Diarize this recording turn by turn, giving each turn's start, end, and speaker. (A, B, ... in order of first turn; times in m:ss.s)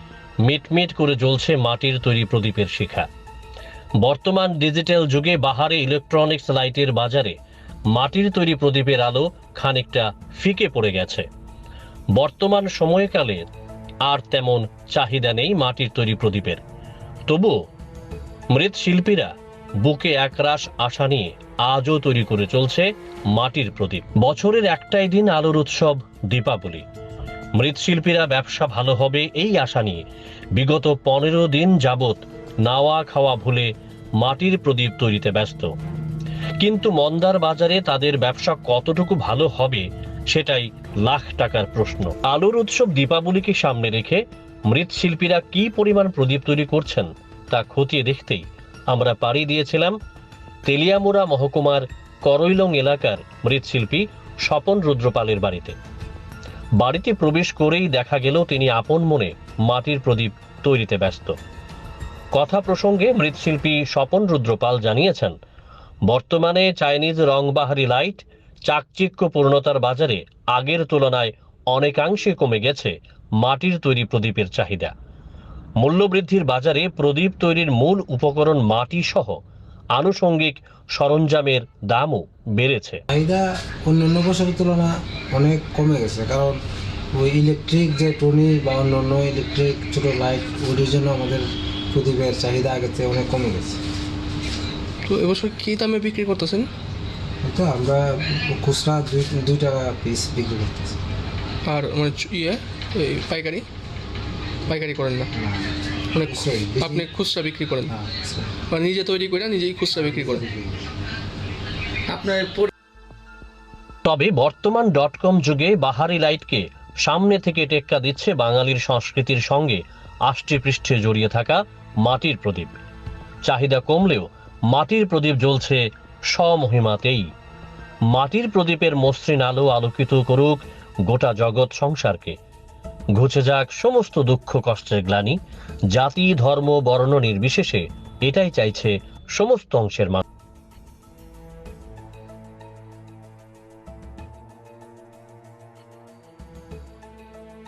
0:00.4-0:03.1 A
0:04.0-0:07.4 A
0:07.9-0:11.2 A
0:12.1-0:13.5 A
0:14.0-0:16.6 A
0:17.3-0:17.6 A
0:18.5-0:26.8 A
0:27.6-0:30.0 A
0:30.5-0:35.7 A
0:36.6-0:50.0 A
0:50.6-0:55.8 A
0:56.8-1:01.4 A
1:02.3-1:05.4 A
1:06.1-1:14.9 A
1:15.8-1:19.4 A
1:19.9-1:23.0 A
1:23.1-1:26.6 B
1:27.1-1:33.8 B
1:35.0-1:36.7 C
1:37.4-1:41.0 B
1:41.6-1:43.6 C
1:44.7-1:45.3 C
1:45.3-1:47.1 B
1:46.1-1:47.9 C
1:47.9-1:48.5 B
1:48.7-1:50.4 C
1:50.0-1:50.9 B
1:52.1-1:52.7 C
1:54.0-2:02.8 A
2:03.4-2:07.2 A
2:08.1-2:12.4 A
2:13.2-2:15.4 A
2:15.9-2:20.2 A